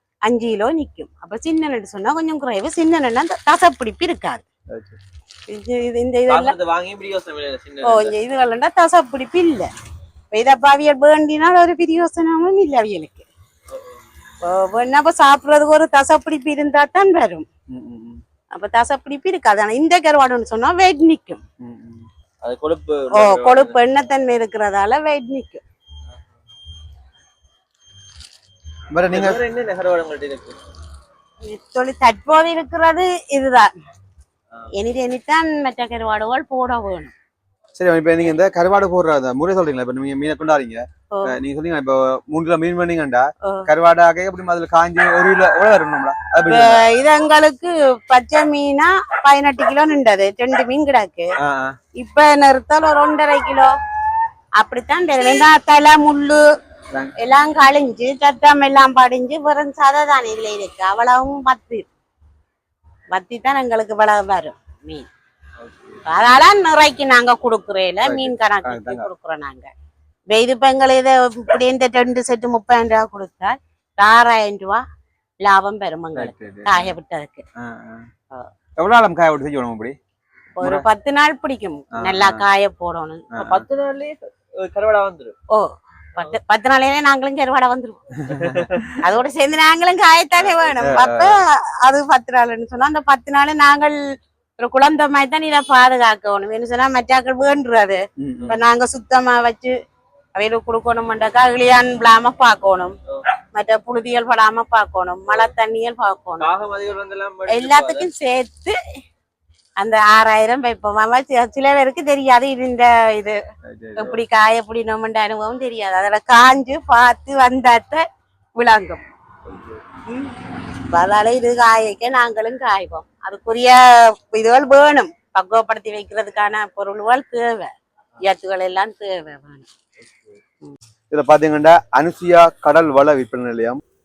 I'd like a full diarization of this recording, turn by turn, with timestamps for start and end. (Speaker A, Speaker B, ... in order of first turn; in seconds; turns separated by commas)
Speaker A: 0.3-4.4, Speaker B: 4.7-5.0, Speaker A: 5.5-6.5, Speaker C: 6.3-8.2, Speaker A: 7.8-9.7, Speaker A: 10.3-13.3, Speaker C: 13.7-14.0, Speaker A: 14.4-17.5, Speaker B: 17.7-18.2, Speaker A: 18.5-21.4, Speaker B: 21.6-22.1, Speaker C: 22.4-23.8, Speaker A: 23.1-25.6, Speaker B: 28.9-29.4, Speaker C: 29.1-30.6, Speaker A: 31.4-33.7, Speaker A: 34.7-37.1, Speaker B: 37.8-46.8, Speaker A: 46.5-51.3, Speaker B: 51.4-51.8, Speaker A: 52.0-53.7, Speaker A: 54.6-56.4, Speaker A: 57.2-61.9, Speaker A: 63.1-65.1, Speaker A: 66.0-69.7, Speaker B: 68.0-69.1, Speaker A: 70.3-74.8, Speaker A: 75.4-77.5, Speaker B: 76.2-77.0, Speaker B: 77.6-78.1, Speaker B: 78.8-80.0, Speaker A: 80.5-83.3, Speaker B: 80.6-80.9, Speaker B: 82.0-82.5, Speaker B: 83.3-83.7, Speaker C: 83.4-85.3, Speaker A: 85.5-88.0, Speaker B: 88.2-88.8, Speaker C: 88.3-89.0, Speaker A: 89.0-94.0, Speaker C: 90.4-91.1, Speaker B: 90.8-91.3, Speaker A: 94.6-99.7, Speaker B: 98.2-98.6, Speaker A: 100.3-103.0, Speaker A: 103.5-106.5, Speaker C: 106.4-108.1, Speaker A: 107.5-108.8, Speaker A: 109.8-113.4, Speaker B: 113.7-114.2, Speaker A: 114.0-118.0, Speaker A: 118.6-119.0, Speaker A: 120.1-120.3, Speaker A: 120.9-129.7, Speaker B: 131.1-133.8